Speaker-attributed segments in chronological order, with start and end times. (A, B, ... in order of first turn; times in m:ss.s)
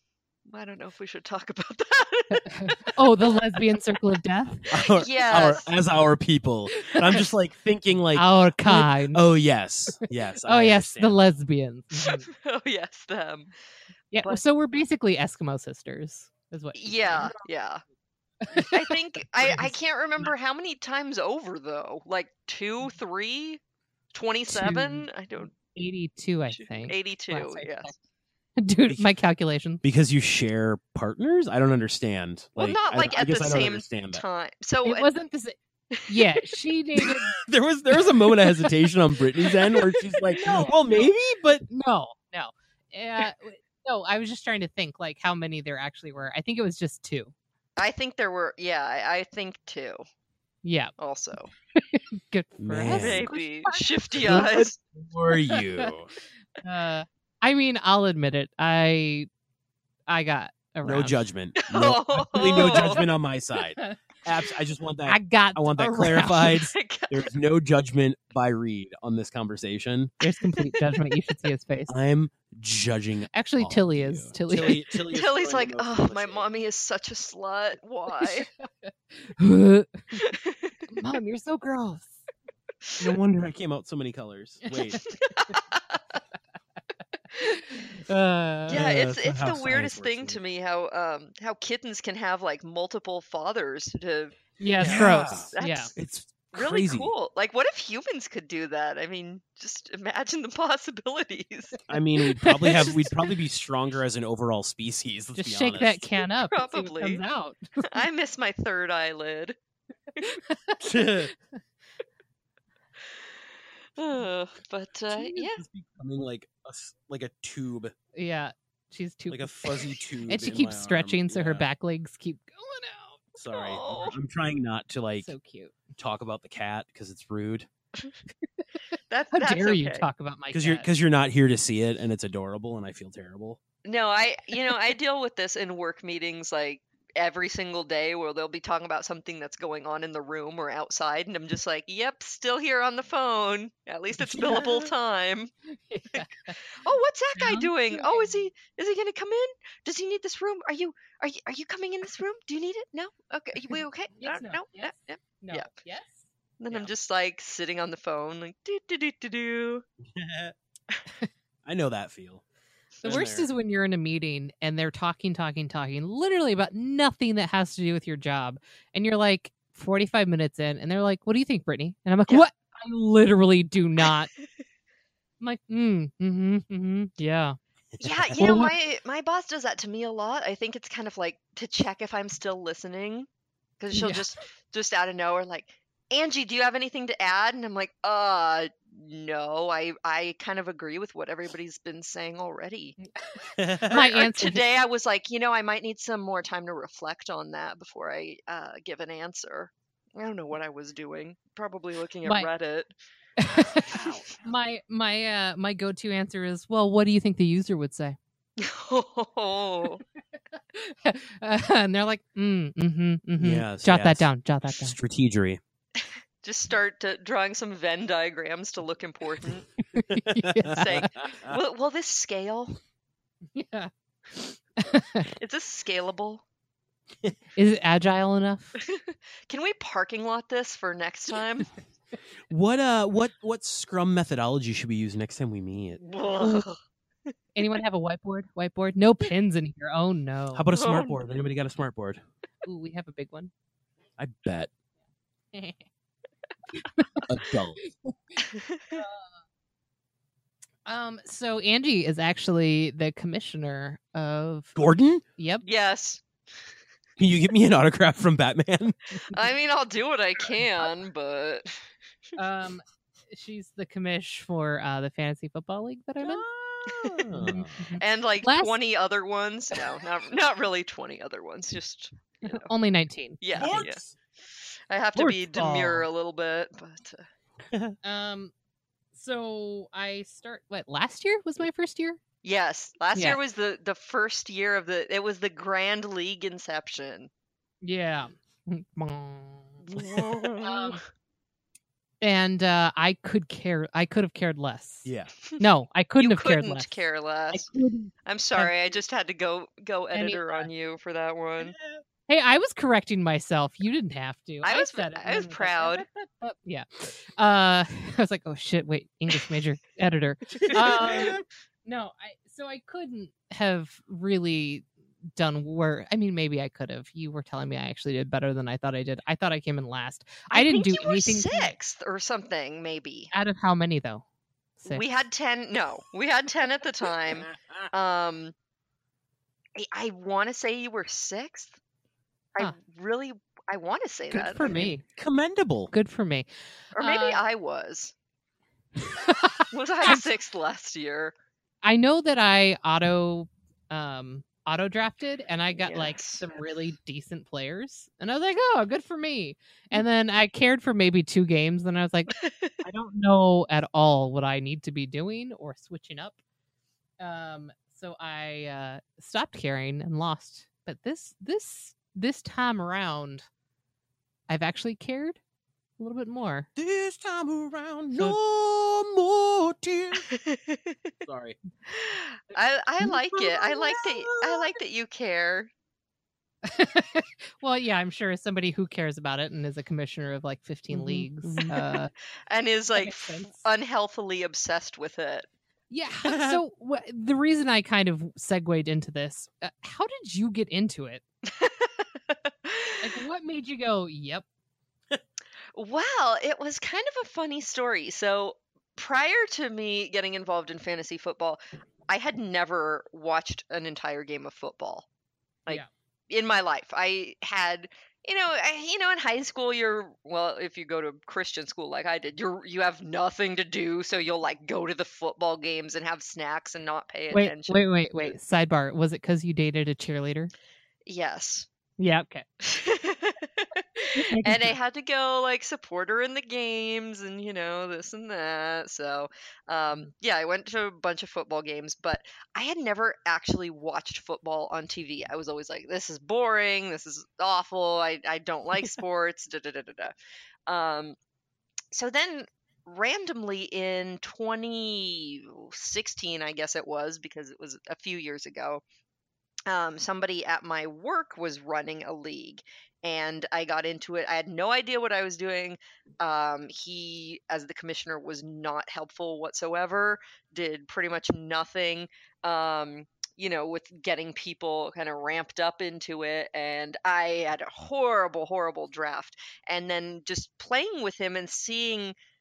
0:00.5-0:02.9 A
0:02.3-0:04.7 B
0:04.7-0:11.2 C
0:04.8-0:05.7 A
0:06.8-0:07.2 B
0:08.1-0:09.2 B
0:10.4-0:12.3 B
0:12.0-0:13.5 A
0:14.1-0:17.3 B
0:16.8-0:17.8 A
0:18.4-0:19.7 B
0:18.7-0:23.6 A
0:24.1-0:25.5 A
0:24.5-0:27.9 B
0:26.5-0:27.9 A
0:28.6-0:29.8 B
0:29.8-0:34.2 C
0:32.6-0:35.1 A
0:34.8-0:37.4 B
0:35.9-0:36.2 A
0:37.4-0:41.7 C
0:40.4-0:41.1 B
0:41.7-0:47.3 B
0:47.8-0:50.0 A
0:50.6-0:50.9 B
0:51.0-0:51.5 A
0:51.8-0:54.4 B
0:52.6-0:53.3 C
0:52.9-0:54.8 A
0:54.2-0:56.1 C
0:55.5-0:55.9 B
0:56.6-0:59.3 B
1:00.1-1:01.2 B
1:00.8-1:10.1 C
1:01.6-1:03.0 A
1:02.5-1:03.0 B
1:03.8-1:04.0 B
1:05.1-1:06.6 B
1:06.7-1:07.3 A
1:10.2-1:11.9 B
1:11.9-1:16.5 C
1:13.3-1:14.9 B
1:15.1-1:18.5 A
1:18.2-1:20.3 B
1:20.2-1:20.8 A
1:20.9-1:22.2 B
1:23.0-1:25.0 C
1:24.7-1:25.5 B
1:25.1-1:26.2 A
1:27.4-1:28.8 B
1:28.7-1:30.4 C
1:28.7-1:36.0 A
1:34.6-1:35.9 B
1:34.8-1:37.1 C
1:36.5-1:41.8 A
1:41.9-1:46.1 C
1:42.2-1:43.3 B
1:45.4-1:48.1 B
1:46.5-1:47.2 A
1:47.8-1:49.6 A
1:50.2-1:51.1 B
1:50.8-1:51.3 C
1:54.0-1:55.6 A
1:55.3-1:57.9 C
1:58.2-2:03.3 B
1:59.3-2:01.7 C
2:03.4-2:05.3 C
2:03.5-2:04.2 A
2:05.2-2:05.8 B
2:06.0-2:07.7 C
2:09.1-2:10.0 A
2:09.3-2:10.9 B
2:10.5-2:13.6 C
2:13.8-2:25.5 A
2:24.3-2:24.9 B
2:25.7-2:26.6 B
2:26.1-2:35.7 A
2:27.4-2:28.5 B
2:33.7-2:36.9 B
2:36.6-2:39.8 A
2:40.1-2:40.6 C
2:41.6-2:42.4 C
2:43.0-2:43.5 C
2:43.0-2:54.3 B
2:55.4-2:57.6 B
2:58.0-2:58.3 C
2:58.0-3:03.3 A
2:58.4-2:58.7 B
3:03.8-3:13.0 A
3:03.9-3:04.2 B
3:13.2-3:14.6 B
3:13.6-3:14.0 C
3:13.9-3:22.9 A
3:23.4-3:28.2 B
3:23.9-3:24.2 A
3:23.9-3:24.3 C
3:28.6-3:30.0 A
3:30.5-3:35.0 B
3:33.4-3:35.6 C
3:36.0-3:39.7 A
3:39.9-3:41.1 B
3:40.1-3:41.6 C
3:40.7-3:42.8 A
3:43.5-3:45.3 B
3:45.4-3:46.4 A
3:47.6-3:48.8 B
3:48.8-3:51.7 A
3:52.5-3:56.0 C
3:56.0-3:56.8 A
3:57.6-4:00.7 B
4:00.5-4:02.2 C
4:00.7-4:01.2 A
4:02.6-4:03.5 B
4:04.2-4:04.7 C
4:05.5-4:05.8 B
4:06.9-4:07.3 B
4:07.2-4:07.8 C
4:07.8-4:08.1 B
4:08.5-4:09.0 A
4:08.9-4:09.3 B
4:10.9-4:14.7 B
4:14.8-4:15.2 C
4:15.4-4:15.6 B
4:15.6-4:16.2 A
4:17.2-4:19.0 C
4:19.3-4:21.8 A
4:22.4-4:26.4 B
4:26.2-4:28.0 C
4:26.9-4:27.3 A
4:27.3-4:28.7 B
4:28.0-4:32.7 A
4:32.5-4:33.8 B
4:33.4-4:34.0 A
4:33.6-4:34.2 C
4:34.5-4:37.3 A
4:35.2-4:36.1 B
4:38.0-4:38.5 B
4:39.1-4:42.2 B
4:42.4-4:47.3 A
4:43.1-4:43.4 B
4:47.8-4:49.8 B
4:49.9-4:51.0 A
4:50.0-4:50.5 C
4:50.6-4:51.0 B
4:52.2-4:57.0 B
4:55.0-4:55.3 C
4:56.2-4:57.7 A
4:57.5-4:58.7 B
4:58.2-5:01.8 A
5:00.1-5:00.7 B
5:01.6-5:02.0 C
5:02.3-5:21.7 B
5:04.6-5:06.0 A
5:10.6-5:11.4 A
5:10.6-5:11.4 C
5:20.5-5:23.3 A
5:23.3-5:24.2 B
5:24.8-5:25.1 B
5:24.9-5:28.5 A
5:29.8-5:31.8 A
5:32.6-5:34.9 A
5:34.3-5:35.0 B
5:34.7-5:35.9 C
5:35.9-5:37.4 B
5:37.0-5:38.1 A
5:39.0-5:40.3 B
5:39.7-5:41.3 A
5:41.8-5:52.3 B
5:45.8-5:46.4 A
5:52.3-5:52.8 A
5:52.8-5:56.4 B
5:57.2-6:03.4 B
6:04.5-6:05.4 B
6:06.0-6:06.7 B
6:06.8-6:10.3 C
6:10.2-6:11.0 A
6:11.2-6:11.6 C
6:11.9-6:15.7 A
6:13.0-6:14.8 C
6:16.6-6:22.1 B
6:20.9-6:22.0 C
6:22.5-6:25.5 A
6:23.0-6:23.7 B
6:25.9-6:31.2 B
6:26.2-6:26.6 C
6:31.5-6:33.2 A
6:33.0-6:34.4 B
6:35.8-6:45.1 A
6:45.7-6:58.3 A
6:57.3-7:00.5 B
7:01.1-7:01.7 A
7:02.0-7:02.4 B
7:02.6-7:20.1 A
7:04.1-7:04.8 B
7:20.7-7:21.2 A
7:21.9-7:28.8 A
7:29.7-7:52.2 A